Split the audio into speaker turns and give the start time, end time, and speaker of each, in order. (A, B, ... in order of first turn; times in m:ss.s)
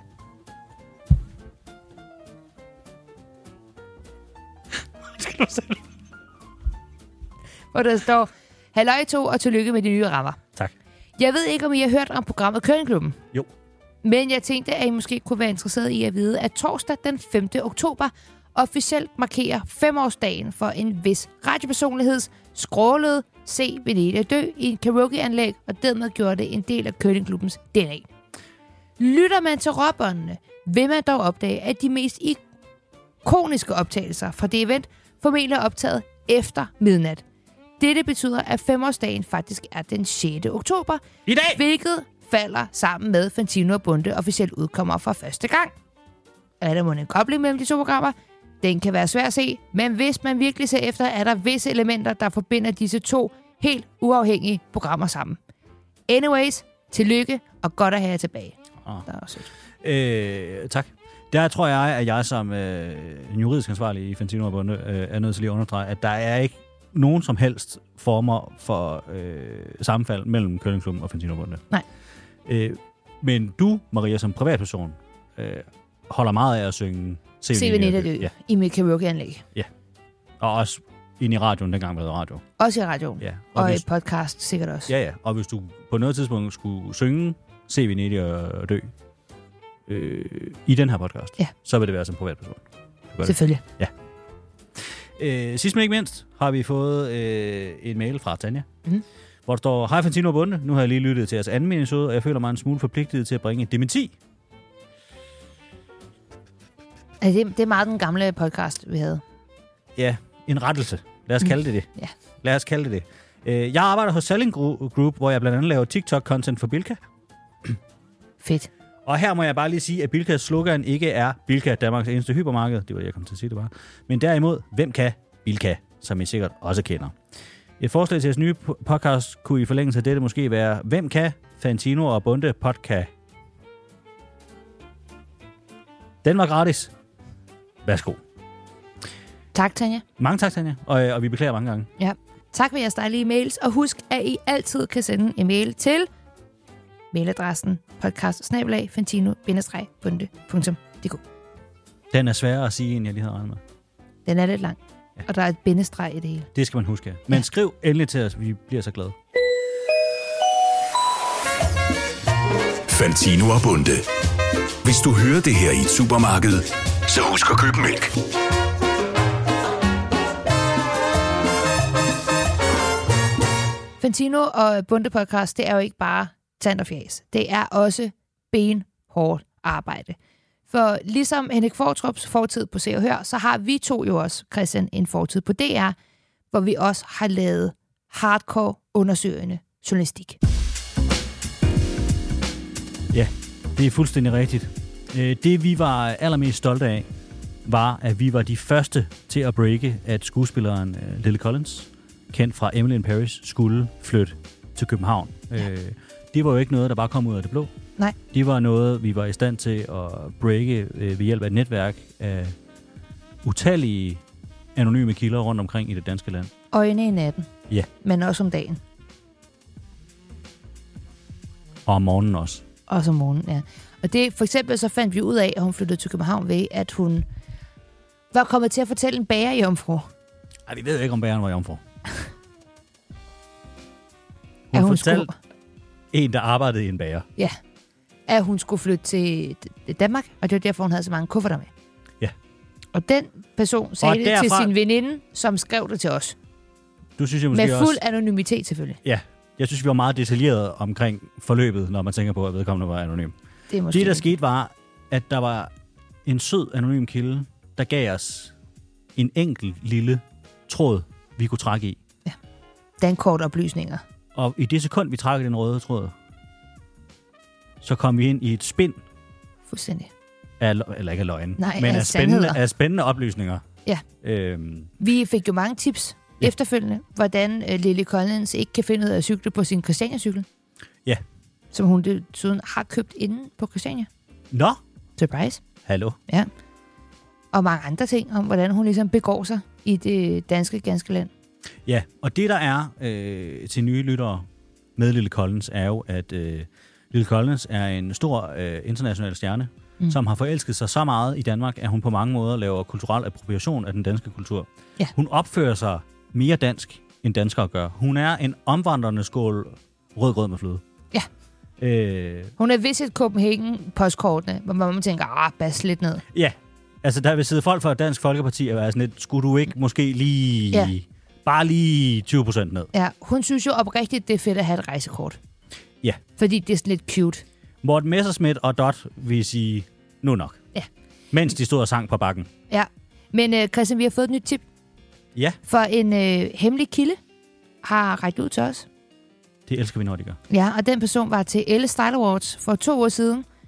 0:04.7-0:05.8 A
0:07.7-0:10.4 B
0:11.2-0:13.2 B
0:14.0-0:28.1 B
0:29.0-0:32.4 B
0:33.2-0:37.2 B
0:37.8-0:45.7 B
0:41.3-0:41.6 A
0:46.6-0:55.4 B
0:56.1-0:59.5 B
0:59.8-1:11.6 A
1:12.4-1:18.3 A
1:17.5-1:19.4 B
1:20.4-1:22.4 A
1:22.6-1:24.9 B
1:23.2-1:23.8 A
1:24.9-1:28.9 A
1:29.9-1:33.9 A
1:33.2-1:33.6 B
1:34.8-1:38.7 A
1:39.4-1:44.1 A
1:47.2-1:49.2 B
1:50.0-1:51.9 A
1:51.4-1:52.1 B
1:52.4-1:57.0 A
1:58.4-1:58.7 B
1:59.0-2:07.2 A
2:07.8-2:13.1 A
2:16.2-2:16.9 A
2:17.8-2:18.2 A
2:19.5-2:20.0 B
2:20.2-2:21.9 A
2:22.0-2:26.1 B
2:27.1-2:31.2 B
2:32.1-2:33.6 A
2:34.3-2:36.5 B
2:36.6-2:39.2 A
2:42.9-2:44.1 C
2:44.8-2:48.1 C
2:54.0-3:00.2 B
3:00.7-3:06.0 B
3:06.5-3:10.4 B
3:13.1-3:17.1 A
3:17.6-3:27.7 A
3:28.3-3:32.6 A
3:33.4-3:34.2 A
3:34.7-3:36.5 A
3:36.7-3:37.5 B
3:38.0-3:38.8 B
3:41.9-3:42.6 A
3:42.9-3:47.3 B
3:48.3-3:50.1 B
3:50.6-3:51.8 A
3:54.7-3:55.3 A
3:54.7-3:55.3 B
3:56.1-3:57.3 A
3:58.3-4:01.7 B
4:02.9-4:06.3 B
4:04.0-4:04.7 A
4:07.2-4:08.0 A
4:07.5-4:09.0 B
4:09.0-4:13.3 A
4:13.7-4:14.3 B
4:13.9-4:15.7 A
4:16.2-4:18.5 A
4:19.1-4:22.0 A
4:23.0-4:24.0 B
4:24.3-4:26.1 A
4:27.8-4:29.0 A
4:29.7-4:30.1 B
4:30.6-4:33.6 A
4:31.6-4:32.6 B
4:34.2-4:34.9 A
4:35.0-4:40.4 B
4:41.7-4:44.1 B
4:44.5-4:44.8 A
4:45.2-4:45.6 B
4:45.8-4:46.2 A
4:47.5-4:51.3 B
4:51.8-4:54.4 A
4:55.0-5:10.8 A
5:11.8-5:12.5 A
5:12.6-5:16.2 B
5:16.3-5:22.9 A
5:22.9-5:25.4 B
5:26.4-5:27.4 B
5:27.8-5:30.6 A
5:31.3-5:32.5 A
5:32.7-5:34.6 B
5:35.7-5:37.2 B
5:37.8-5:38.9 B
5:39.7-5:40.4 A
5:40.5-5:43.4 B